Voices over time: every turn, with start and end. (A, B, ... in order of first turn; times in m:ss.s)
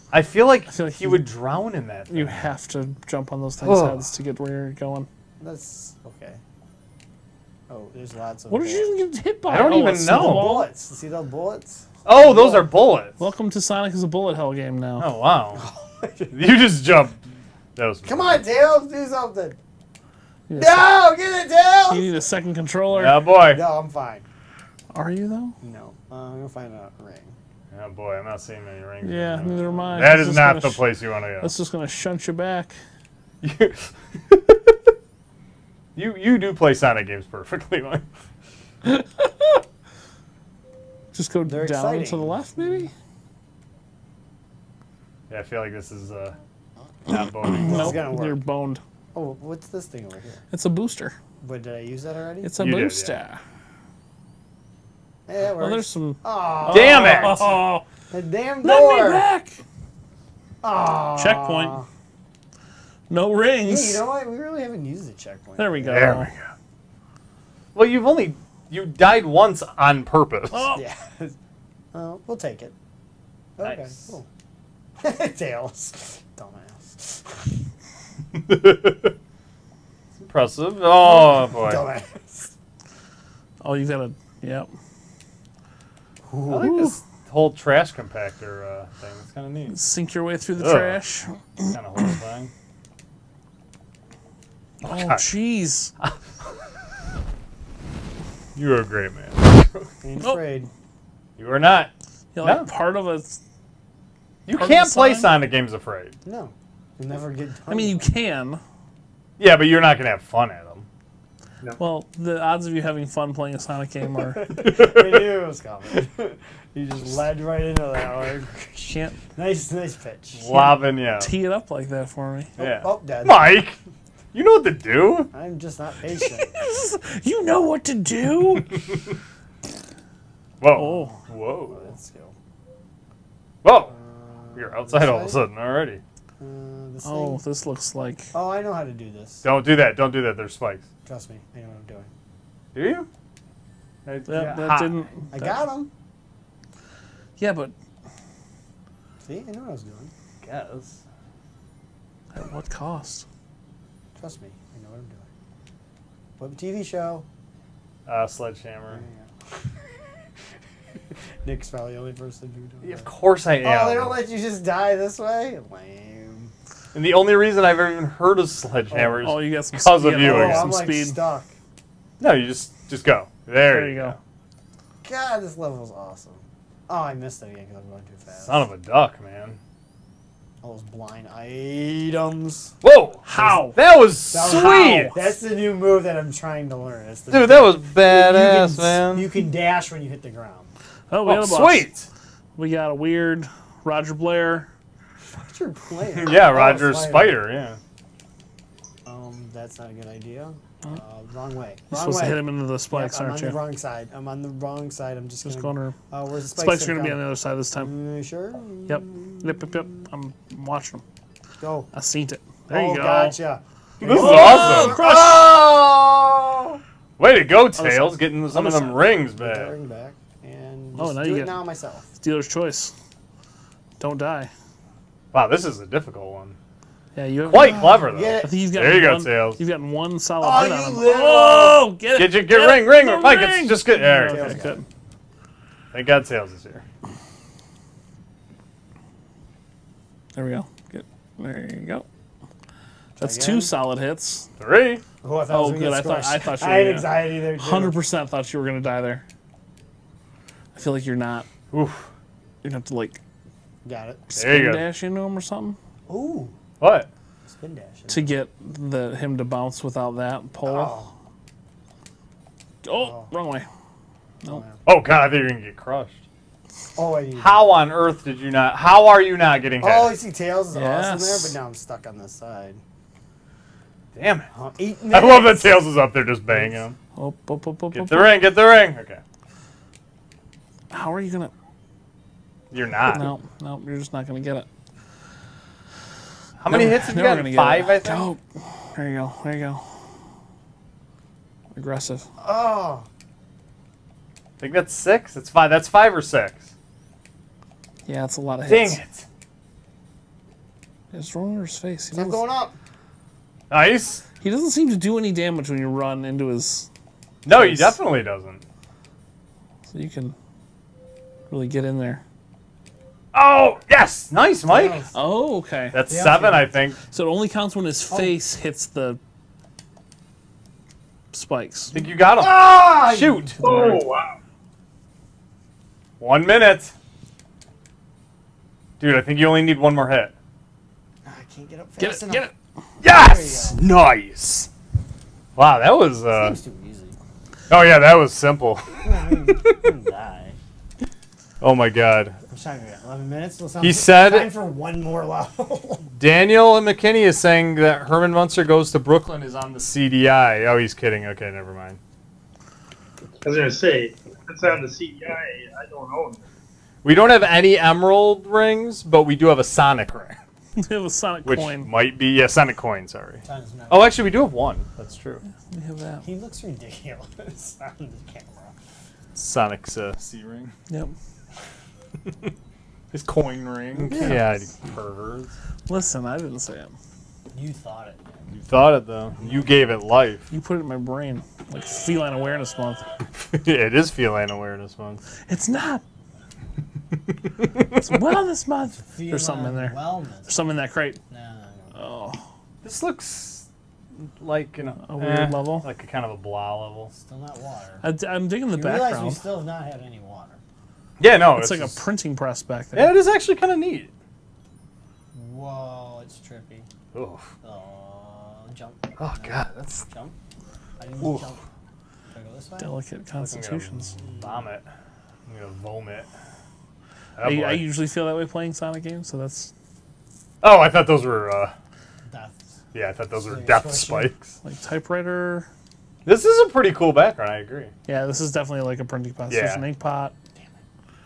0:00.1-0:02.5 A
0:00.7-0:01.3 B
0:02.1-0:05.1 B
0:03.6-0:04.0 A
0:05.4-0:06.4 C
0:07.7-0:08.9 C
0:08.5-0:10.7 B
0:09.5-0:10.6 A
0:10.0-0:12.7 C
0:12.0-0:13.2 A
0:13.2-0:15.1 B
0:15.0-0:15.6 A
0:15.5-0:16.3 C
0:16.3-0:17.2 A
0:17.8-0:18.4 A
0:18.0-0:19.6 C
0:20.5-0:20.9 B
0:20.5-0:22.2 C
0:21.9-0:23.2 B
0:22.9-0:23.6 A
0:23.4-0:24.3 C
0:24.9-0:25.6 B
0:25.6-0:27.4 C
0:27.7-0:31.5 A
0:29.0-0:30.9 B
0:31.4-0:32.8 B
0:33.4-0:34.7 A
0:35.9-0:38.0 A
0:38.8-0:39.6 B
0:41.1-0:42.9 B
0:41.4-0:42.9 C
0:45.3-0:46.4 A
0:47.1-0:48.1 A
0:47.1-0:48.8 B
0:47.6-0:48.4 C
0:49.1-0:50.4 C
0:50.5-0:51.2 B
0:51.4-0:52.6 C
0:52.4-0:53.4 B
0:52.6-0:53.2 A
0:55.3-0:57.6 C
0:55.6-0:57.8 B
0:56.7-0:57.4 A
0:58.1-0:59.2 C
0:58.6-0:59.6 B
1:00.6-1:01.9 C
1:01.2-1:01.8 B
1:03.1-1:04.0 B
1:03.6-1:06.0 C
1:05.6-1:06.3 B
1:05.8-1:06.5 A
1:07.7-1:10.7 A
1:10.5-1:10.8 B
1:10.7-1:11.4 C
1:11.9-1:12.7 C
1:13.6-1:14.3 C
1:13.6-1:14.1 A
1:15.0-1:17.5 C
1:18.4-1:19.1 A
1:20.2-1:21.9 A
1:21.0-1:22.5 C
1:23.6-1:24.7 B
1:26.2-1:26.9 C
1:26.5-1:29.8 A
1:29.7-1:32.2 B
1:30.6-1:31.0 A
1:31.7-1:32.5 A
1:34.8-1:35.2 A
1:34.8-1:35.9 B
1:38.5-1:39.9 A
1:40.0-1:40.7 C
1:41.4-1:41.9 A
1:42.3-1:43.4 B
1:42.4-1:42.7 A
1:44.4-1:46.2 A
1:44.5-1:45.3 B
1:46.2-1:48.1 C
1:47.7-1:48.6 B
1:49.4-1:50.9 A
1:51.8-1:54.5 B
1:54.2-2:00.5 C
1:54.6-1:55.2 A
1:58.8-1:59.2 B
2:00.4-2:01.3 A
2:00.5-2:02.5 B
2:02.6-2:03.6 C
2:02.6-2:03.8 A
2:04.3-2:05.3 A
2:05.3-2:06.6 C
2:06.2-2:08.8 B
2:10.6-2:11.9 A
2:10.7-2:11.2 B
2:11.0-2:12.4 C
2:13.6-2:13.9 A
2:13.8-2:15.4 C
2:14.6-2:16.0 A
2:16.4-2:17.4 C
2:17.0-2:18.3 B
2:18.3-2:19.4 C
2:19.4-2:20.8 A
2:21.0-2:22.1 C
2:22.7-2:23.1 A
2:24.0-2:25.0 A
2:24.2-2:25.6 B
2:25.3-2:25.9 C
2:27.4-2:27.7 B
2:29.2-2:30.1 C
2:30.4-2:31.0 A
2:32.3-2:33.2 B
2:34.2-2:35.3 C
2:36.4-2:37.2 C
2:38.0-2:39.0 A
2:38.9-2:39.3 C
2:41.4-2:43.1 C
2:42.8-2:44.2 A
2:43.6-2:46.5 C
2:46.9-2:50.7 A
2:48.9-2:49.3 C
2:49.2-2:51.2 B
2:50.1-2:51.5 C
2:52.2-2:54.2 A
2:53.7-2:54.2 B
2:55.0-2:58.6 C
2:58.4-2:59.6 A
3:00.6-3:02.7 C
3:02.8-3:05.2 A
3:03.2-3:03.8 B
3:04.3-3:10.7 C
3:04.5-3:05.2 B
3:07.3-3:09.3 A
3:11.1-3:11.9 B
3:11.2-3:12.1 A
3:12.6-3:14.7 B
3:15.3-3:17.4 C
3:16.2-3:17.8 A
3:19.0-3:29.8 C
3:21.9-3:23.6 B
3:25.4-3:26.0 B
3:26.5-3:27.9 B
3:28.9-3:31.0 B
3:31.6-3:31.9 C
3:31.9-3:33.4 B
3:32.7-3:36.8 C
3:34.0-3:35.7 A
3:34.0-3:35.4 B
3:37.2-3:39.7 A
3:37.7-3:39.0 B
3:39.0-3:42.1 C
3:41.0-3:41.6 B
3:42.2-3:42.9 B
3:44.0-3:44.5 B
3:45.3-3:46.6 A
3:47.1-3:54.8 B
3:47.4-3:49.6 A
3:47.8-3:48.6 C
3:50.4-3:51.9 C
3:52.1-3:54.6 A
3:54.0-3:54.8 C
3:55.9-3:56.8 A
4:00.3-4:02.0 B
4:03.2-4:03.7 C
4:03.2-4:04.5 B
4:04.6-4:05.0 A
4:05.2-4:08.0 C
4:05.5-4:09.2 B
4:10.7-4:11.5 B
4:11.7-4:12.1 A
4:12.6-4:13.2 B
4:13.8-4:14.3 C
4:14.3-4:15.8 B
4:14.4-4:14.8 A
4:16.1-4:16.6 C
4:16.8-4:17.1 A
4:17.4-4:18.3 C
4:18.1-4:21.0 B
4:20.6-4:21.1 C
4:22.8-4:23.7 B
4:23.0-4:23.3 C
4:24.4-4:24.8 C
4:24.8-4:26.2 A
4:27.0-4:27.6 C
4:27.4-4:30.2 A
4:29.8-4:32.8 C
4:30.7-4:31.6 B
4:34.1-4:34.5 A
4:34.5-4:35.9 C
4:35.1-4:37.0 A
4:37.1-4:38.4 B
4:37.9-4:39.2 A
4:40.9-4:41.5 B
4:42.7-4:43.3 A
4:43.1-4:44.6 B
4:46.6-4:48.3 A
4:46.7-4:49.8 B
4:51.7-4:52.3 B
4:52.4-4:53.1 C
4:54.6-4:56.7 A
4:58.0-4:59.0 B
4:58.6-4:59.2 A
5:01.1-5:02.4 B
5:02.1-5:02.8 C
5:03.7-5:04.2 A
5:04.4-5:06.9 B
5:07.4-5:08.6 A
5:07.5-5:08.0 B
5:09.9-5:10.3 B
5:11.5-5:12.2 B
5:13.3-5:15.0 A
5:14.6-5:15.1 C
5:15.1-5:16.0 B
5:15.9-5:17.0 A
5:16.1-5:16.7 C
5:17.1-5:19.2 B
5:18.1-5:18.3 C
5:21.3-5:22.0 B
5:21.9-5:24.0 A
5:22.4-5:24.0 C
5:23.6-5:24.4 D
5:26.2-5:26.9 A
5:29.0-5:30.3 A
5:31.2-5:32.4 C
5:32.0-5:32.5 B
5:33.0-5:34.7 A
5:33.0-5:33.8 C
5:35.6-5:36.6 A
5:36.3-5:37.2 C
5:37.7-5:39.8 A
5:39.0-5:40.6 C
5:41.6-5:42.4 A
5:42.5-5:46.1 C
5:43.8-5:44.5 A
5:46.2-5:52.0 A
5:53.4-5:56.4 D
5:57.0-6:00.4 A
6:00.8-6:01.9 B
6:01.4-6:05.4 A
6:03.4-6:04.4 C
6:05.7-6:06.3 B
6:06.2-6:08.7 C
6:09.3-6:10.7 A
6:10.9-6:11.1 B
6:13.1-6:15.5 A
6:14.0-6:14.6 B
6:15.9-6:16.9 B
6:17.5-6:18.5 C
6:18.5-6:20.4 A
6:19.4-6:19.8 C
6:20.5-6:23.0 B
6:23.4-6:25.2 A
6:25.5-6:26.0 B
6:27.6-6:27.9 A
6:27.9-6:31.2 B
6:29.0-6:30.6 C
6:31.3-6:32.0 C
6:31.9-6:32.4 B
6:32.8-6:33.6 A
6:34.4-6:37.1 A
6:35.0-6:35.9 B
6:37.1-6:38.0 C
6:38.0-6:39.4 B
6:38.7-6:40.6 C
6:41.2-6:42.0 A
6:41.5-6:43.2 B
6:42.9-6:44.1 A
6:45.3-6:46.9 C
6:47.1-6:47.5 A
6:47.6-6:50.4 C
6:49.2-6:50.1 A
6:51.0-6:51.6 C
6:51.2-6:51.5 A
6:52.3-6:52.9 C
6:52.8-6:54.1 B
6:53.4-6:54.9 A
6:54.2-6:54.7 C
6:55.5-6:56.3 A
6:57.4-6:57.9 A
6:57.4-6:59.7 B
7:00.6-7:01.7 A
7:02.2-7:02.6 C
7:02.9-7:04.5 A
7:03.4-7:04.3 C
7:04.6-7:05.7 B
7:06.2-7:07.9 A
7:08.1-7:10.3 B
7:09.5-7:09.8 A